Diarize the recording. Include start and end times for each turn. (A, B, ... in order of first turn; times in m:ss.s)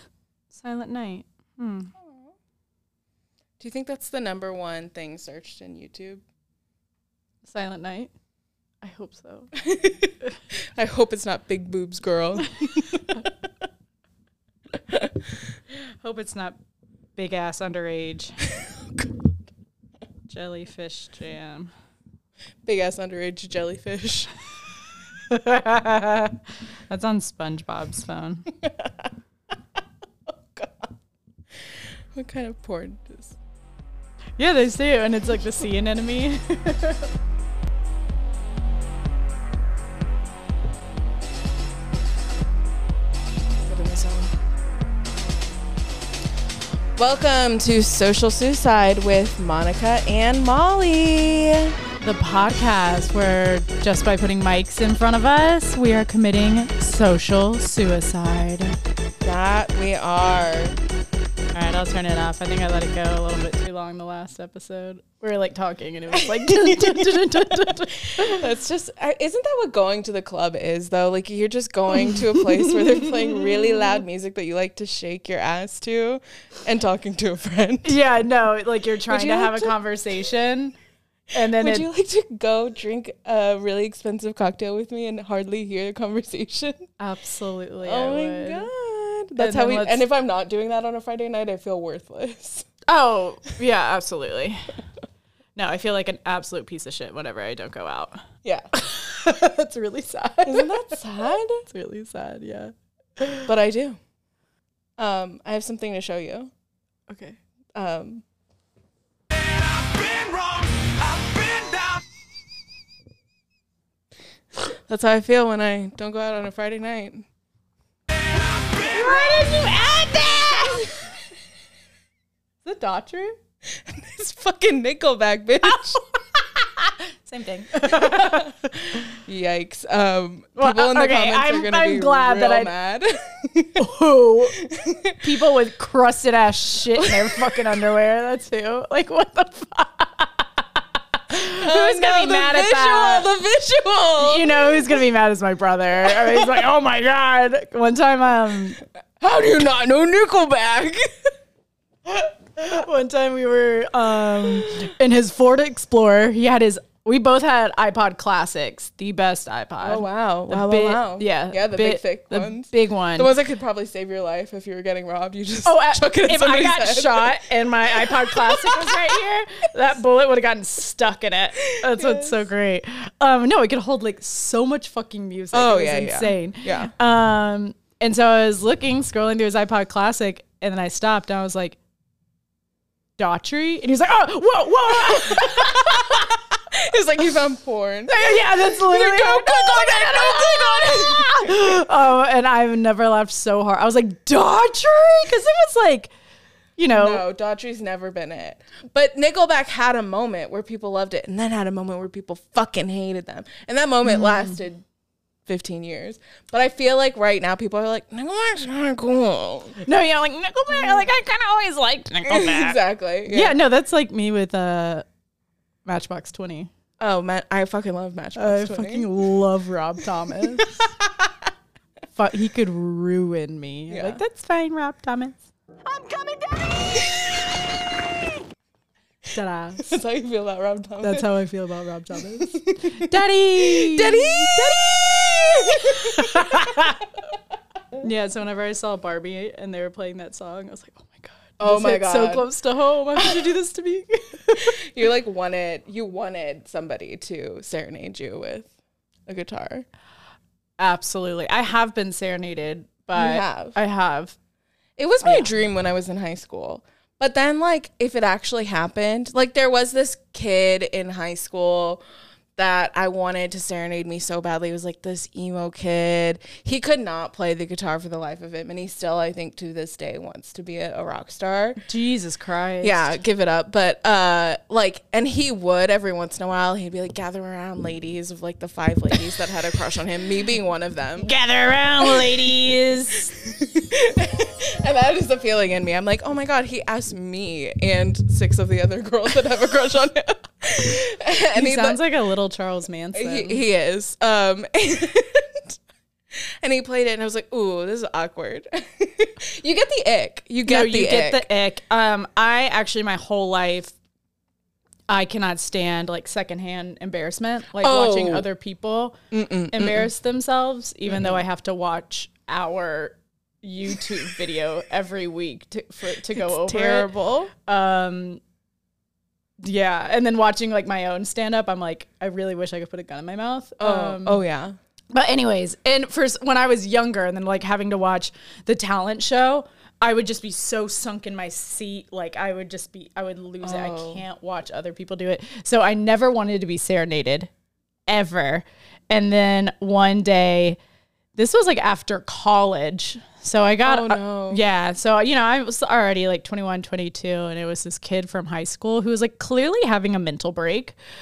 0:00.5-0:01.9 A
0:02.0-0:02.3 B
0:03.6-0:06.2 B
0:07.4-0:08.1 A
0:08.8-0:09.5 A
0:09.6-0:10.1 B
0:10.7-0:13.2 B
0:16.0-0:16.6 A
0:17.2-0:18.4 A
0:20.3-0:21.7 A
0:22.6-0:24.3 B
0:25.3-0:26.4 A
0:26.9-0:28.4 A
0:28.6-0:29.1 B
0:30.3-0:30.9 B
0:32.1-0:33.4 B
0:34.4-0:37.1 A
0:43.6-0:44.3 B
0:46.9-0:51.8 B
0:52.0-0:58.8 A
0:59.2-1:00.8 B
1:01.5-1:08.4 A
1:06.1-1:18.0 B
1:11.9-1:13.9 A
1:17.8-1:20.7 A
1:19.1-1:19.8 B
1:21.3-1:21.9 A
1:21.5-1:26.8 B
1:27.0-1:28.7 A
1:27.8-1:32.7 B
1:29.4-1:30.0 A
1:32.9-1:34.7 A
1:35.6-1:41.0 A
1:40.4-1:41.6 B
1:41.6-1:43.5 A
1:43.4-1:44.0 B
1:45.0-1:46.5 B
1:47.1-1:47.4 A
1:47.7-1:48.2 B
1:49.3-1:52.0 C
1:54.8-1:57.2 B
1:58.3-1:59.2 C
1:58.9-2:00.9 A
2:02.6-2:03.4 A
2:03.8-2:06.0 B
2:06.6-2:08.6 A
2:07.9-2:13.9 B
2:10.6-2:12.7 A
2:13.8-2:14.6 A
2:14.6-2:15.2 B
2:15.2-2:23.3 A
2:17.0-2:17.5 B
2:21.5-2:24.8 B
2:24.2-2:28.8 A
2:26.0-2:26.6 B
2:29.2-2:31.3 B
2:32.6-2:43.3 A
2:39.8-2:49.2 B
2:45.6-3:01.8 A
2:51.8-2:52.5 B
2:55.5-2:56.9 B
3:03.2-3:06.4 A
3:05.0-3:11.6 B
3:08.1-3:16.1 A
3:16.8-3:17.2 A
3:16.9-3:24.8 B
3:24.0-3:24.6 A
3:25.4-3:29.8 B
3:29.8-3:35.0 A
3:32.3-3:33.5 B
3:35.8-3:36.7 A
3:37.0-3:39.1 B
3:38.4-3:40.8 A
3:40.6-3:41.3 B
3:42.1-3:45.5 A
3:43.9-3:44.2 B
3:49.3-3:50.0 A
3:49.8-3:51.3 B
3:51.0-3:54.8 A
3:52.4-3:56.9 B
3:55.8-3:57.0 A
3:58.0-4:04.7 A
4:01.6-4:02.5 B
4:03.2-4:03.4 B
4:04.6-4:08.7 B
4:09.3-4:09.8 B
4:10.8-4:14.3 A
4:13.1-4:13.8 B
4:15.0-4:22.0 B
4:15.2-4:15.5 A
4:22.6-4:31.8 B
4:31.8-4:33.0 A
4:32.8-4:41.3 B
4:41.2-4:43.3 A
4:43.3-4:52.0 B
4:51.5-4:53.6 A
4:53.1-4:55.8 B
4:56.6-5:01.5 B
5:00.6-5:03.9 A
5:05.1-5:09.2 A
5:07.8-5:08.5 B
5:09.3-5:10.1 B
5:09.7-5:18.4 A
5:11.1-5:11.4 B
5:16.3-5:17.5 B
5:19.6-5:24.4 A
5:23.8-5:24.8 B
5:25.1-5:37.5 A
5:33.6-5:34.2 B
5:38.1-5:40.8 A
5:41.3-5:51.0 A
5:43.8-5:44.6 B